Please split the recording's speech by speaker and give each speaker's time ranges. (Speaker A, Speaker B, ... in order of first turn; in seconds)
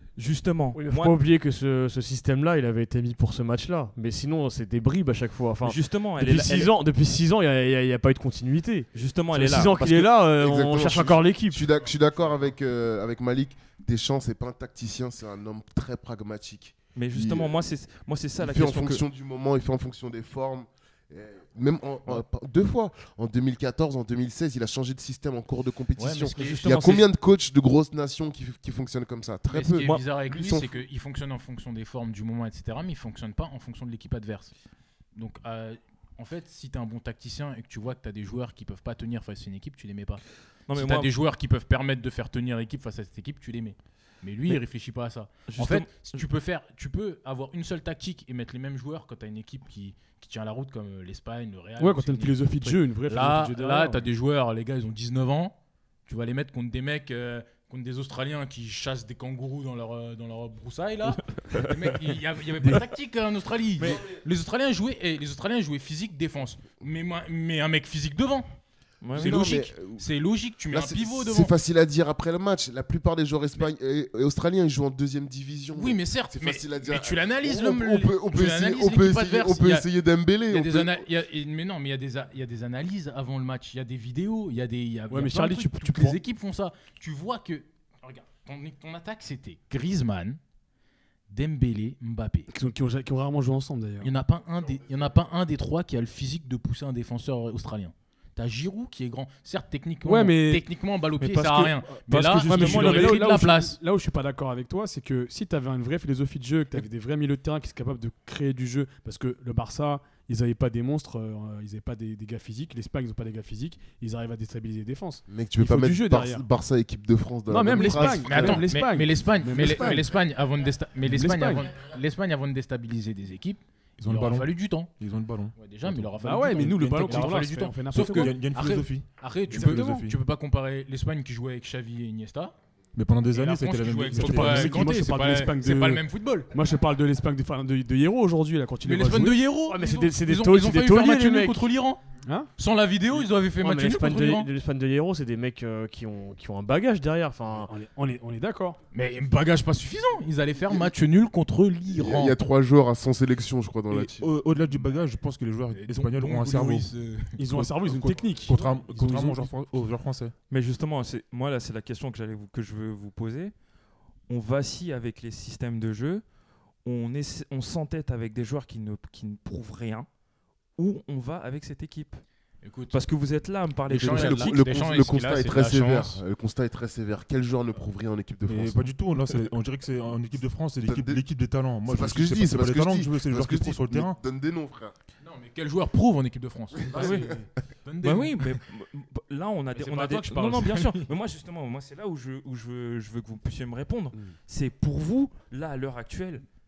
Speaker A: 0.1-1.2, 5.6-6.7, 8.9-10.1, 16.9-19.0, 26.4-27.0, 40.7-41.1, 45.5-46.2, 69.0-69.4, 101.2-103.2, 160.5-163.5, 164.3-166.2, 166.8-170.1, 170.8-172.2, 172.9-174.7, 186.9-187.3, 188.0-196.4
Speaker B: 0.7-11.6, 139.7-141.6, 143.6-147.7
Speaker C: 10.3-17.6, 18.4-30.8, 69.1-70.0, 70.7-81.0, 115.3-118.6, 150.7-150.9, 151.9-154.3, 173.9-178.9, 180.8-181.2, 181.8-184.9, 186.9-187.4
Speaker D: 26.0-27.0, 29.5-34.5, 35.1-68.5, 69.1-71.5, 75.7-79.9, 80.5-90.4, 91.3-92.5, 94.0-103.8, 117.9-124.9, 125.5-132.5, 133.3-136.5, 138.8-142.0, 142.6-144.5, 148.9-152.4, 155.7-157.4, 158.5-159.2, 172.6-173.0, 173.9-176.2, 185.2-188.4, 189.7-191.1
Speaker E: 51.8-54.1, 85.1-86.2, 92.5-94.1, 100.0-100.6, 102.1-116.4, 117.5-120.2, 121.0-121.7, 126.2-128.5, 129.5-130.0, 134.1-139.6, 142.2-142.5, 147.6-148.8, 157.4-159.5
Speaker F: 124.0-130.2, 132.9-134.9, 153.9-160.3, 178.4-184.2